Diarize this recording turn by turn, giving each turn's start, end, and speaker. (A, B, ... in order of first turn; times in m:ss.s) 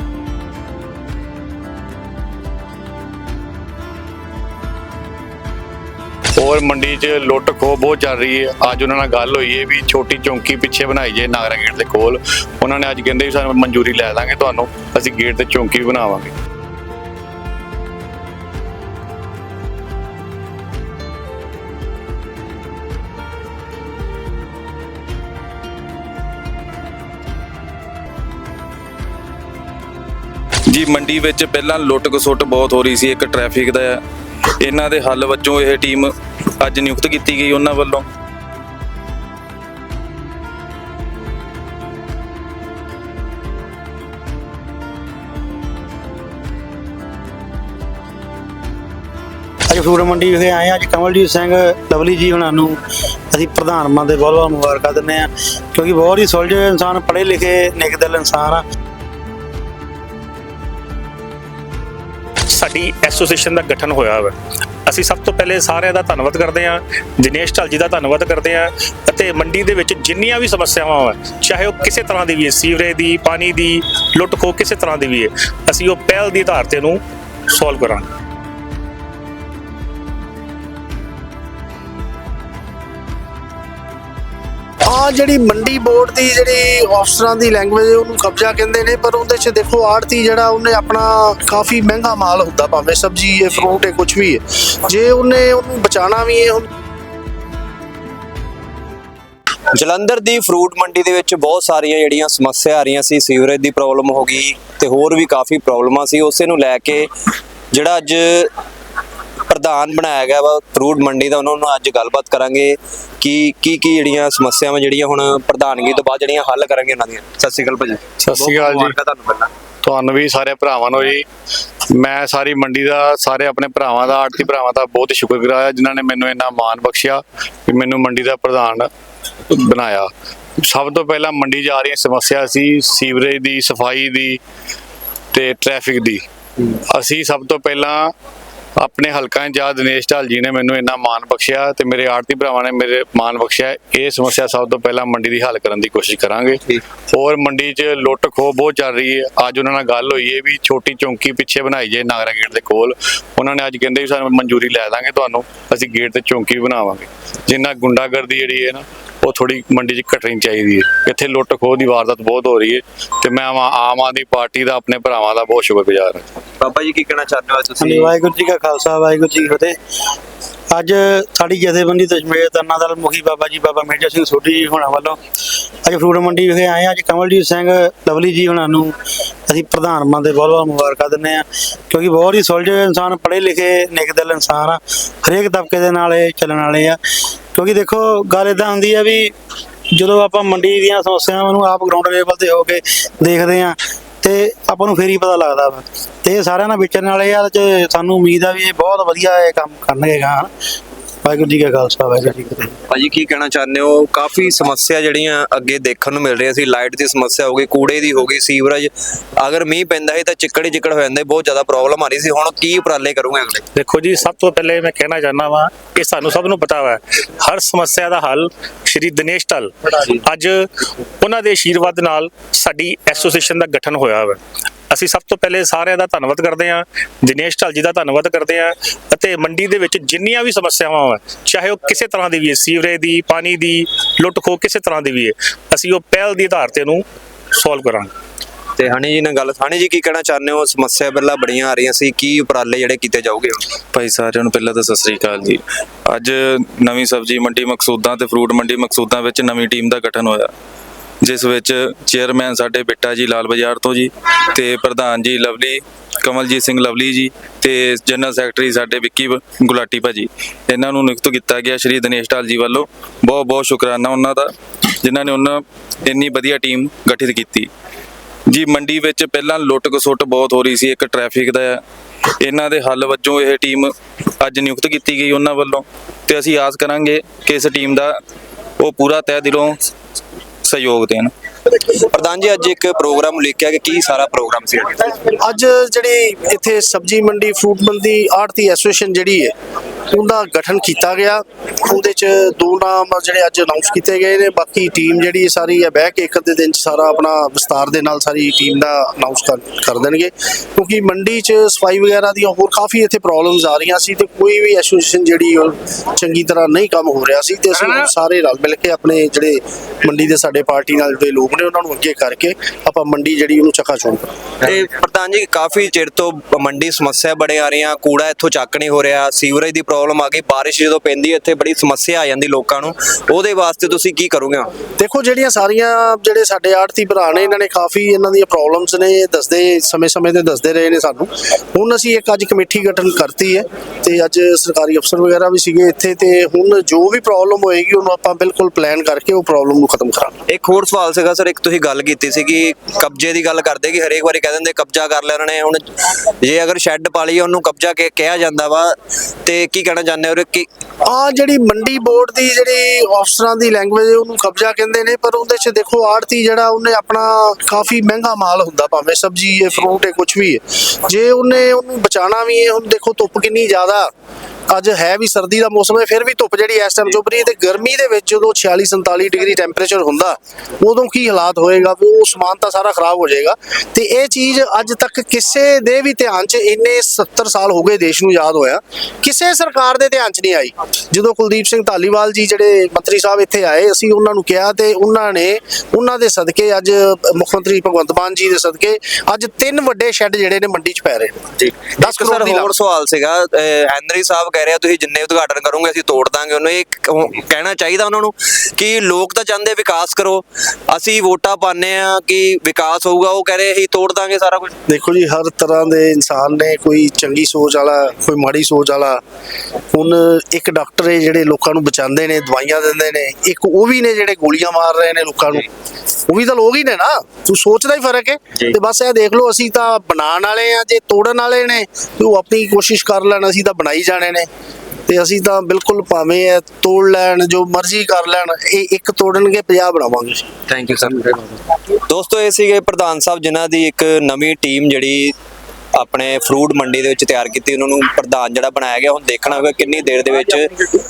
0:06.4-0:16.3 A
0:30.7-0:34.0 B
0:34.6-0:36.1 B
0:36.6-0:38.0 B
0:49.7-0:52.8 C
0:53.3-0:58.6 C
1:02.5-1:04.3 D
1:04.9-1:17.0 D
1:17.5-1:18.1 D
1:24.9-1:36.7 E
1:39.8-1:47.1 F
1:47.7-1:48.5 F
1:49.5-1:59.5 F
1:58.2-1:59.0 A
1:59.8-2:01.2 A
2:01.9-2:08.9 A
2:09.5-2:14.4 A
2:15.3-2:16.2 A
2:16.9-2:18.1 A
2:18.8-2:46.3 A
2:46.6-2:48.1 F
2:47.8-2:49.7 C
2:50.7-2:55.2 C
2:55.9-2:58.9 C
2:59.5-3:07.0 C
3:07.6-3:09.3 C
3:10.0-3:20.5 C
3:21.2-3:22.7 C
3:22.9-3:33.6 F
3:33.8-3:40.6 D
3:41.2-3:44.4 D
3:44.9-3:57.0 D
3:57.6-3:58.1 D
3:58.8-4:03.6 F
4:03.9-4:10.5 B
4:11.2-4:24.5 B
4:25.0-4:27.7 B
4:28.5-4:31.8 B
4:32.4-4:33.9 B
4:34.4-4:38.1 B
4:38.8-4:39.7 B
4:40.7-4:41.3 B
4:42.0-4:45.1 F
4:45.3-4:49.5 E
4:50.1-5:14.3 E
5:14.6-5:24.7 F
5:25.0-5:40.4 E
5:40.5-5:45.8 F
5:46.4-5:48.9 F
5:49.5-5:50.7 F
5:51.1-6:04.1 E
6:04.7-6:31.4 E
6:31.6-6:44.7 F
6:32.0-6:32.7 E
6:44.9-6:49.2 E
6:49.9-6:55.7 E
6:56.3-7:04.5 E
7:05.1-7:10.5 E
7:10.7-7:15.3 F
7:16.0-7:21.0 F